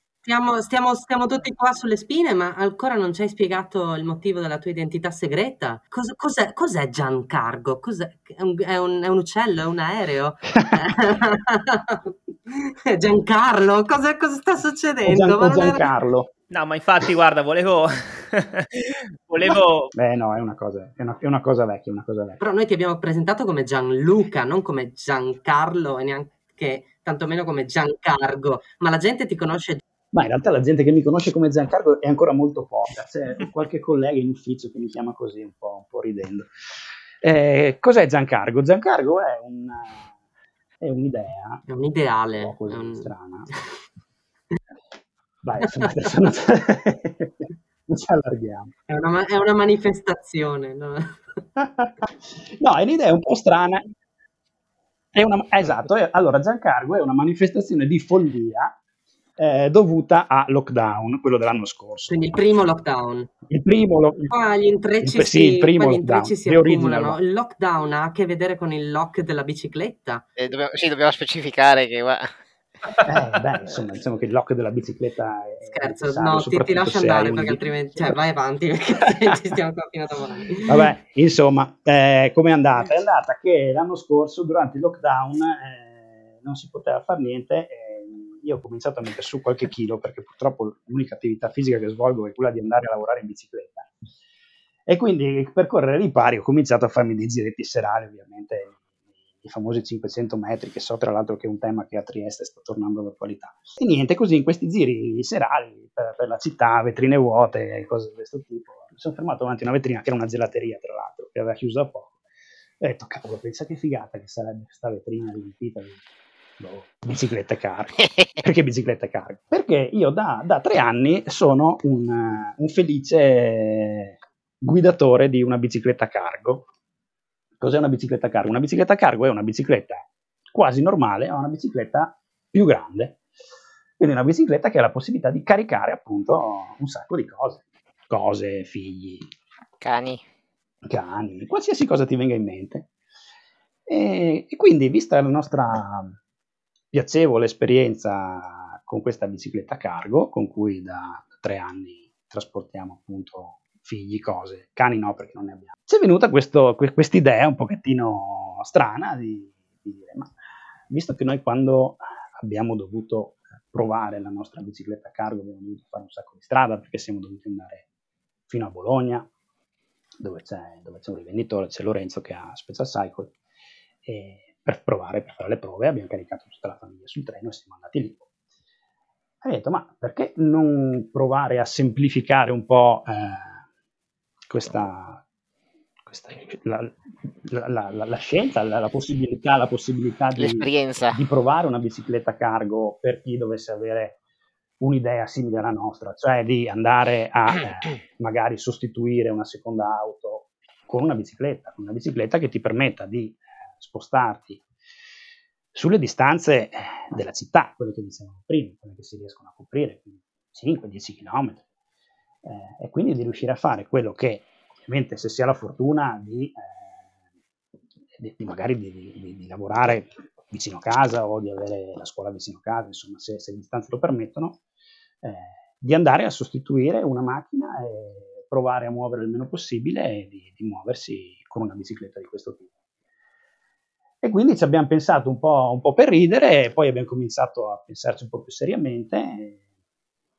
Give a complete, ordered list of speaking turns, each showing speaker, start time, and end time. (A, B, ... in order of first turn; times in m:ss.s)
0:00.2-0:15.9 A
0:15.0-0:16.3 B
0:16.5-0:19.9 C
0:20.0-0:22.4 B
0:22.4-0:29.8 A
0:30.1-0:36.5 B
0:37.2-0:40.1 B
0:40.8-0:41.6 B
0:41.7-0:43.1 A
0:42.4-0:43.5 B
0:45.4-0:48.7 B
0:45.7-0:46.1 A
0:48.9-0:51.2 A
0:51.6-0:53.8 B
0:55.1-0:58.8 B
0:59.4-1:02.2 B
1:02.1-1:03.3 A
1:03.5-1:04.3 B
1:04.3-1:10.2 A
1:05.0-1:07.2 B
1:10.4-1:12.4 D
1:13.0-1:18.2 B
1:15.7-1:20.9 A
1:20.7-1:33.9 B
1:34.9-1:38.8 B
1:39.4-1:52.1 B
1:52.8-1:56.0 B
1:56.6-2:06.6 B
2:07.6-2:13.2 B
2:14.0-2:19.3 B
2:19.8-2:20.2 D
2:20.8-2:22.9 B
2:23.9-2:26.2 B
2:26.9-2:40.3 B
2:40.9-2:47.8 B
2:48.5-2:49.3 B
2:50.2-2:53.4 B
2:54.0-2:58.2 B
2:59.4-3:03.6 B
3:04.5-3:05.2 B
3:06.1-3:14.2 B
3:10.4-3:11.2 D
3:14.8-3:24.6 B
3:25.7-3:31.6 B
3:32.4-3:36.6 B
3:38.2-3:44.6 B
3:45.2-3:52.7 B
3:54.2-3:59.6 B